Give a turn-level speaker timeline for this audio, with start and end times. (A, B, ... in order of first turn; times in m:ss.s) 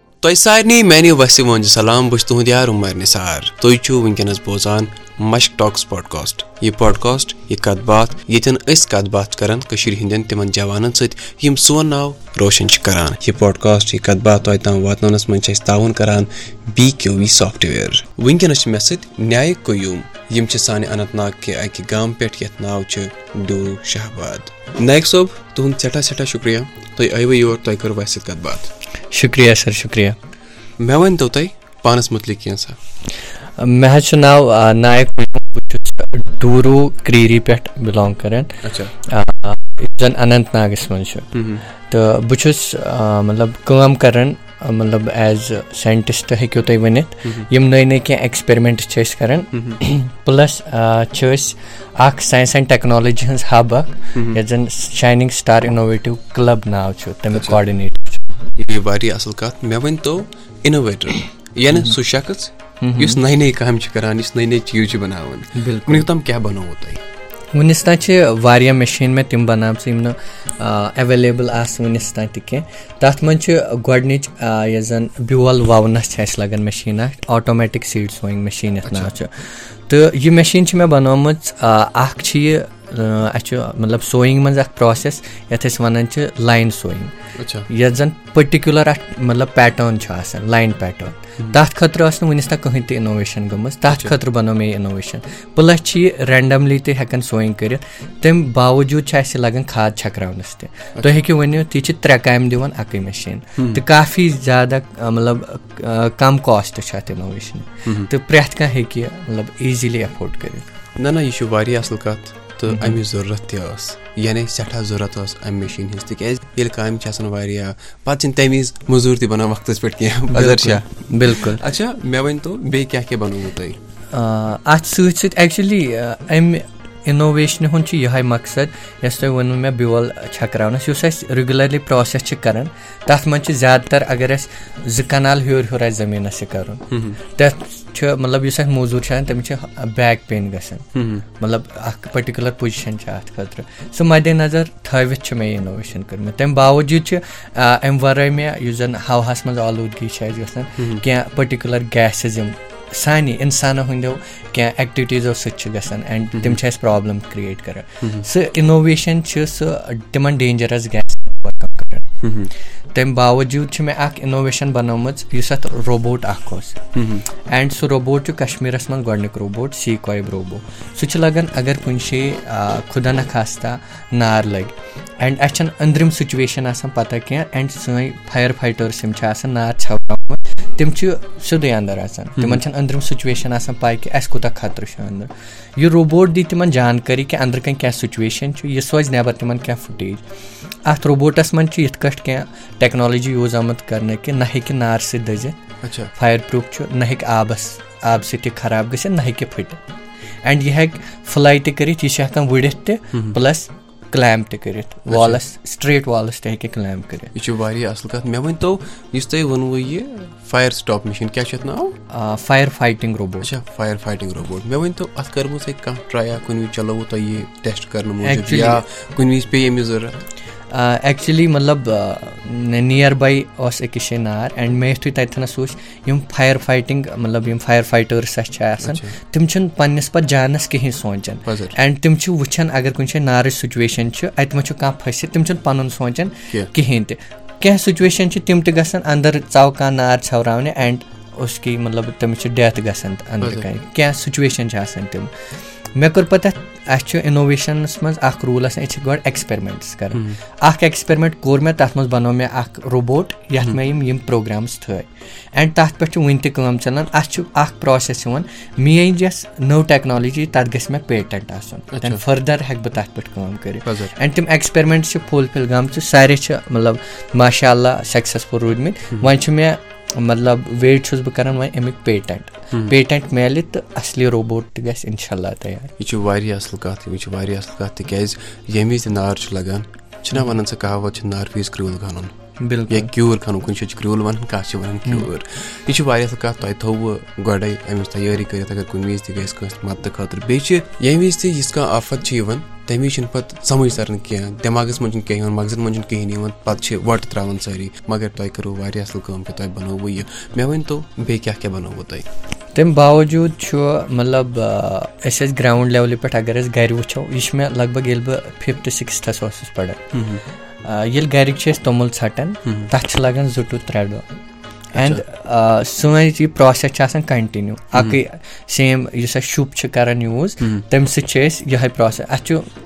0:00.2-0:28.7 A
0:29.1-0:30.2 B
0:30.8-0:32.8 A
0:33.6-0:41.3 B
0:38.6-0:38.9 A
0:41.3-0:41.6 A
0:41.9-0:58.3 B
0:49.5-0:49.8 A
0:54.1-0:54.4 A
0:57.3-0:57.6 A
0:58.6-1:07.0 A
1:02.8-1:03.2 B
1:05.5-1:06.1 B
1:07.5-1:27.1 B
1:18.8-1:19.1 A
1:27.4-1:27.7 A
1:27.7-1:50.7 B
1:33.9-1:34.1 A
1:43.6-1:43.8 A
1:51.0-2:03.8 A
1:52.7-1:53.0 B
2:00.3-2:01.6 B
2:04.1-2:42.1 B
2:16.9-2:17.2 A
2:20.9-2:21.2 A
2:30.8-2:31.0 A
2:36.3-2:36.6 A
2:42.2-2:42.5 A
2:42.9-2:46.8 B
2:46.9-2:47.2 A
2:47.4-3:10.2 B
3:02.4-3:02.6 A
3:10.8-3:15.6 B
3:15.8-3:16.1 A
3:16.1-3:19.8 B
3:20.4-3:27.3 B
3:23.1-3:23.4 A
3:25.1-3:25.4 A
3:27.3-3:31.9 A
3:32.1-3:33.5 B
3:33.4-3:40.2 A
3:38.2-3:38.8 B
3:40.7-4:05.3 B
3:48.8-3:49.2 A
3:51.5-3:51.8 A
4:05.9-4:35.9 B
4:10.1-4:10.4 A
4:21.9-4:22.2 A
4:23.8-4:24.1 A
4:36.0-4:42.3 A
4:42.6-4:43.1 B
4:42.9-5:02.2 A
5:02.7-5:10.1 B
5:10.1-5:10.4 A
5:10.8-5:14.2 B
5:14.9-5:15.2 A
5:14.9-5:22.6 B
5:17.9-5:18.2 A